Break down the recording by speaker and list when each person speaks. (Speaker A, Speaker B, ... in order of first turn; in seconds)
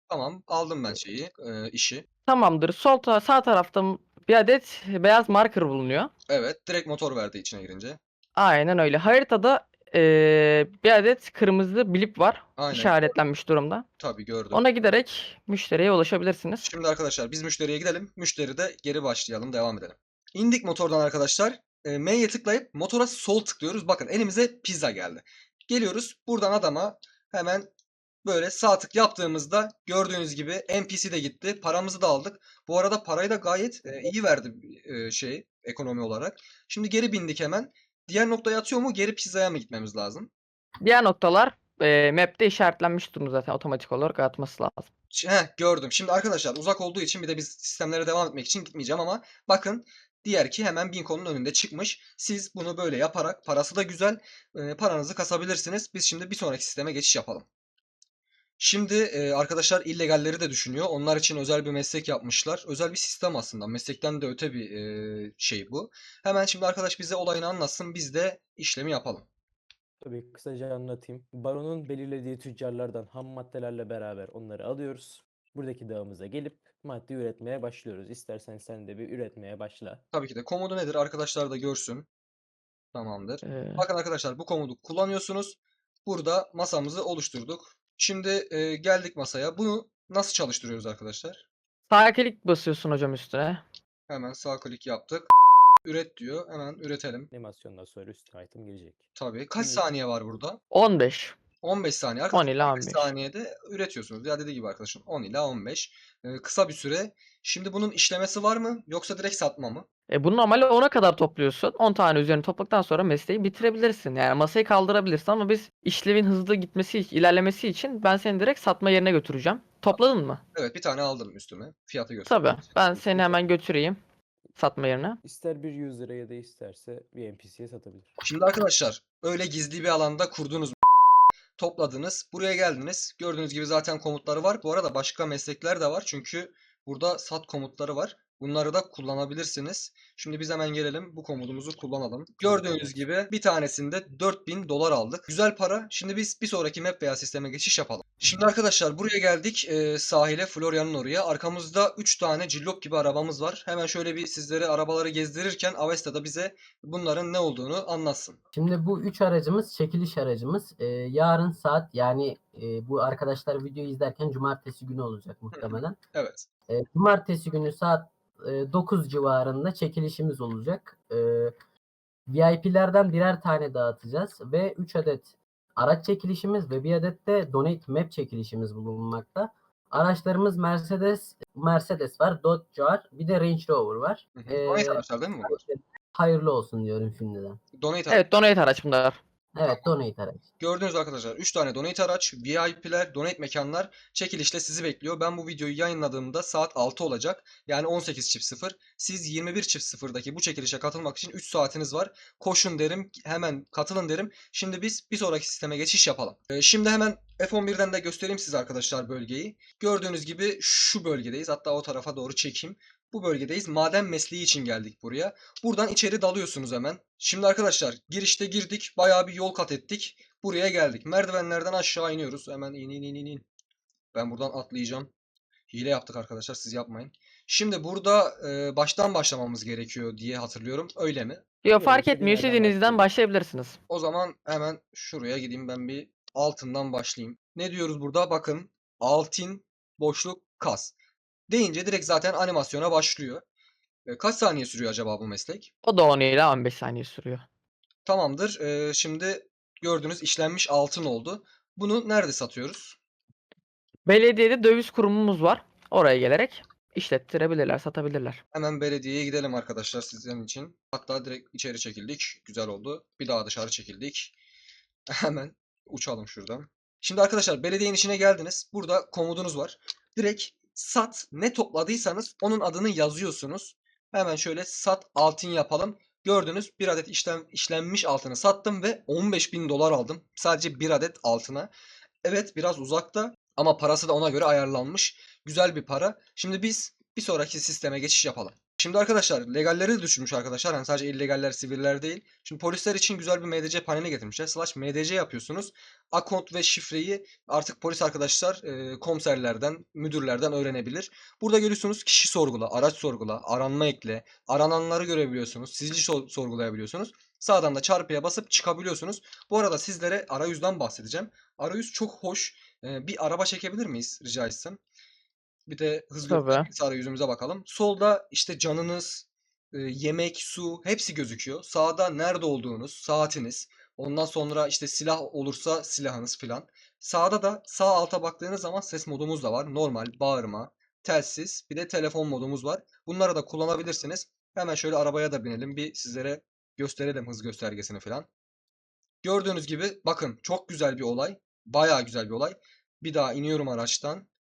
Speaker A: 0.1-2.0, 6.3-8.0, 12.6-13.1, 14.0-14.6, 16.6-27.7, 28.2-40.3, 45.1-57.5, 58.6-69.3, 80.1-82.1, 82.9-91.4, 94.1-95.3, 95.8-97.3, 99.2-100.6, 101.6-109.8, 120.5-122.7, 128.2-130.8, 131.6-158.4, 165.5-166.4, 184.3-185.6, 187.8-188.2, 190.6-223.4, 224.1-225.1, 225.7-231.4, 233.9-240.9, 241.5-243.4, 244.1-245.7, 248.0-253.0, 258.5-264.3, 265.1-281.7, 282.2-314.8, 315.7-338.3, 339.2-344.3
Speaker B: 2.3-6.1, 8.3-13.8, 14.5-16.7, 40.8-44.9, 83.4-83.8, 91.9-93.6, 100.7-101.3, 102.3-103.1, 110.1-120.4, 122.2-124.0, 124.6-125.2, 188.1-189.2, 231.6-233.8, 245.8-247.4, 254.1-258.4, 316.3-316.7
Speaker C: 70.0-80.0, 97.3-99.0, 99.5-99.8, 123.0-123.4, 125.2-128.1, 142.4-142.8, 231.8-233.1
Speaker D: 158.5-166.0, 166.7-171.5, 172.3-187.6, 189.5-190.5